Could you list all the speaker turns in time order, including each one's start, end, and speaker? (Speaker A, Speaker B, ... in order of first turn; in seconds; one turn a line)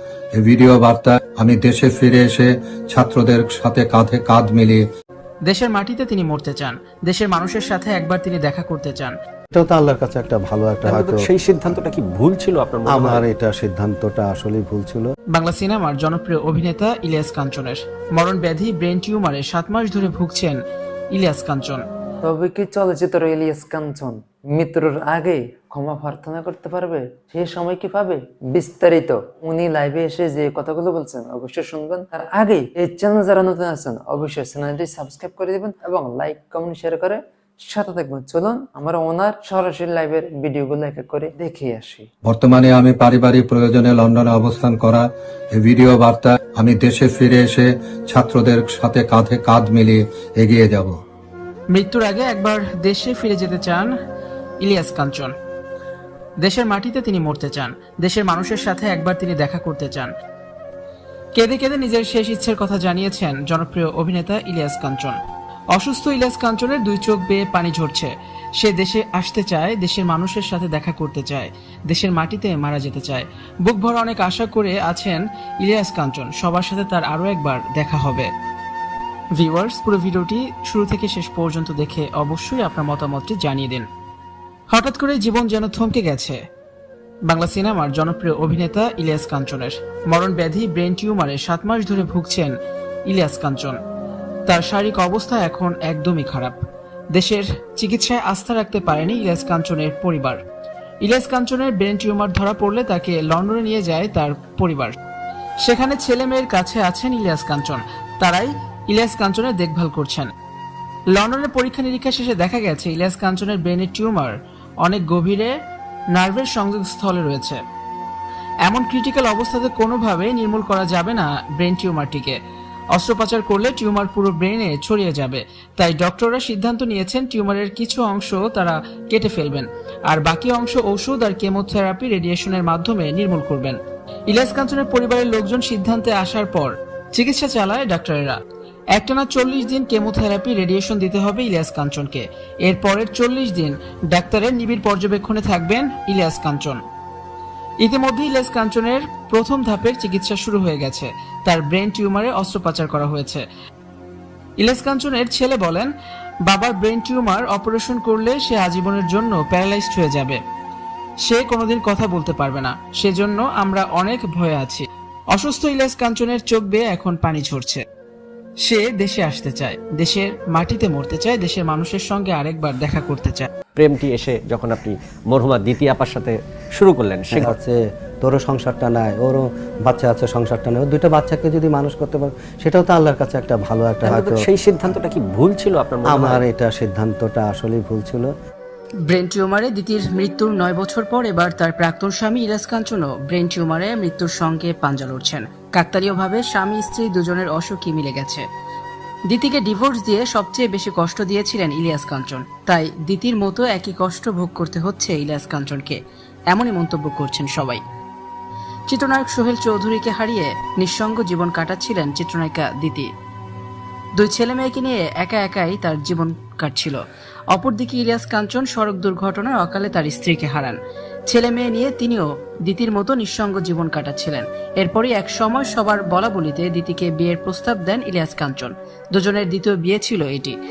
Speaker A: 0.4-4.8
Speaker B: 5.5-9.2
Speaker C: 9.5-11.8
Speaker D: 10.8-13.2
Speaker C: 12.9-15.1
Speaker B: 15.3-20.6
Speaker B: 21.1-21.8
Speaker E: 22.2-42.1
Speaker A: 42.3-45.0
Speaker A: 45.6-50.9
Speaker B: 51.7-53.9
Speaker B: 54.6-55.3
Speaker B: 56.4-60.1
Speaker B: 61.4-65.2
Speaker B: 65.7-78.3
Speaker B: 79.3-83.9
Speaker B: 84.7-86.4
Speaker B: 87.3-92.5
Speaker B: 93.1-93.8
Speaker B: 94.5-100.4
Speaker B: 101.0-105.0
Speaker B: 105.6-110.3
Speaker B: 111.1-115.5
Speaker B: 116.1-117.6
Speaker B: 118.7-122.4
Speaker B: 122.9-133.8
Speaker B: 134.3-138.4
Speaker B: 138.9-146.8
Speaker B: 147.8-153.4
Speaker B: 154.6-155.9
Speaker B: 156.5-160.4
Speaker B: 161.3-167.8
Speaker B: 168.6-173.5
Speaker D: 173.8-177.5
Speaker C: 177.3-184.4
Speaker D: 184.0-186.4
Speaker C: 186.1-188.3
Speaker B: 189.1-198.4
Speaker B: 199.3-207.8
Speaker B: 208.9-213.1
Speaker B: 214.2-217.0
Speaker B: 217.5-230.6